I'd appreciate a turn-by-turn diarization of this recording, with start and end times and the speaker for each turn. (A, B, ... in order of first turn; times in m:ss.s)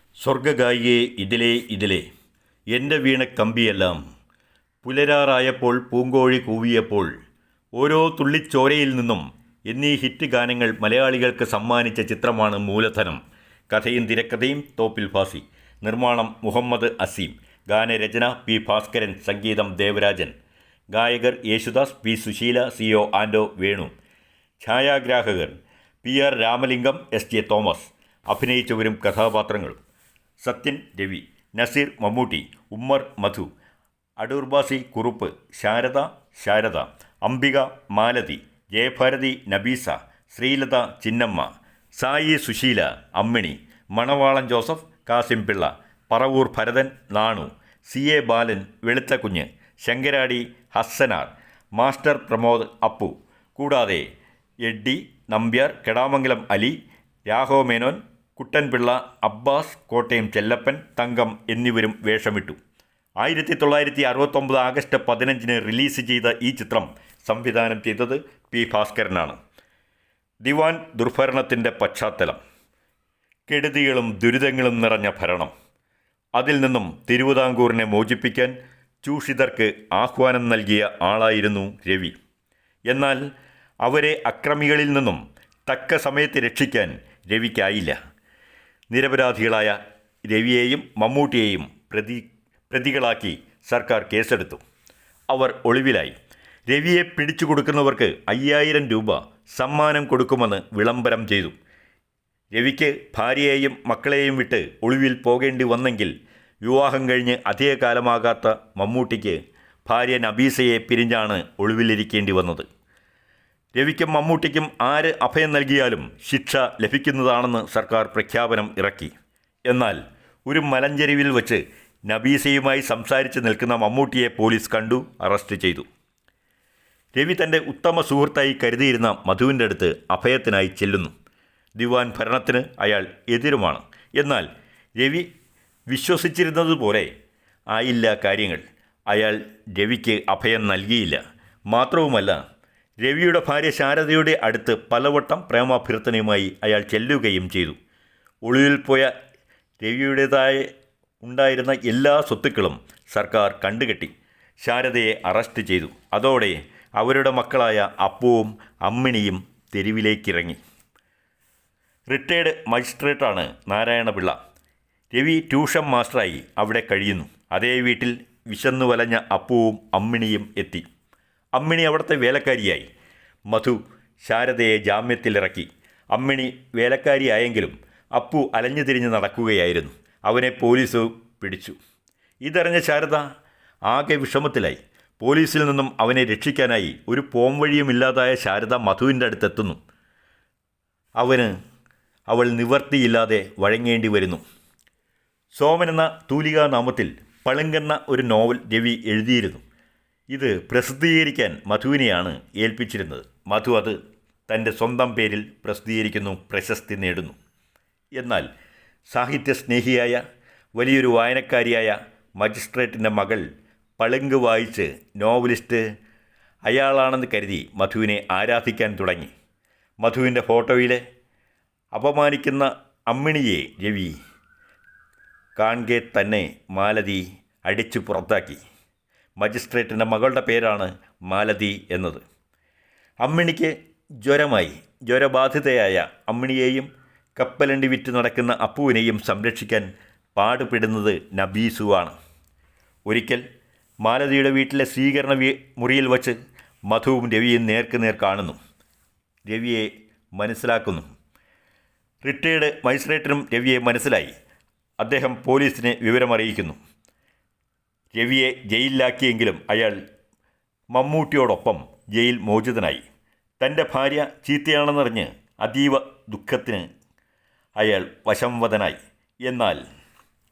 0:00.2-0:02.0 A
0:02.7-0:04.0 A
0:04.8-0:07.1 A
0:07.8-0:20.3 A
0:20.9-0:23.9 A
0:24.6-0:29.8 A
0:30.4-0:33.5 A
0:34.2-0:54.1 A
0:54.6-1:02.6 A
1:03.2-1:09.4 A
1:10.4-1:12.4 A
1:13.5-1:15.5 A
1:16.4-1:22.2 A
1:22.9-1:23.2 A
1:23.8-1:28.0 A
1:28.9-1:34.6 A
1:35.3-1:36.2 A
1:36.7-1:41.5 A
1:42.5-1:52.6 A
1:53.8-1:59.1 A
1:59.7-2:05.8 A
2:07.1-2:11.1 A
2:11.8-2:15.3 A
2:15.9-2:17.1 A
2:17.7-2:22.4 A
2:23.0-2:27.8 A
2:28.4-2:29.1 A
2:29.8-2:30.7 A
2:31.2-2:40.6 A
2:42.1-2:44.4 A
2:45.1-2:50.8 A
2:51.6-2:52.9 A
2:53.5-3:01.8 A
3:02.4-3:03.2 A
3:03.9-3:09.8 A
3:11.2-3:11.5 A
3:12.3-3:14.4 A
3:15.5-3:19.6 A
3:20.3-3:27.4 A
3:28.2-3:28.5 A
3:29.1-3:30.2 A
3:30.8-3:33.4 A
3:34.0-3:35.8 A
3:36.6-3:39.3 A
3:40.0-3:41.0 A
3:41.9-3:44.1 A
3:45.6-3:48.6 A
3:49.4-3:52.2 A
3:53.2-4:02.1 A
4:03.1-4:03.4 A
4:04.0-4:06.4 A
4:06.9-4:08.6 A
4:09.5-4:11.0 A
4:12.2-4:14.3 A
4:15.0-4:16.8 A
4:18.1-4:20.0 A
4:20.9-4:23.0 A
4:23.6-4:26.8 A
4:27.8-4:29.8 A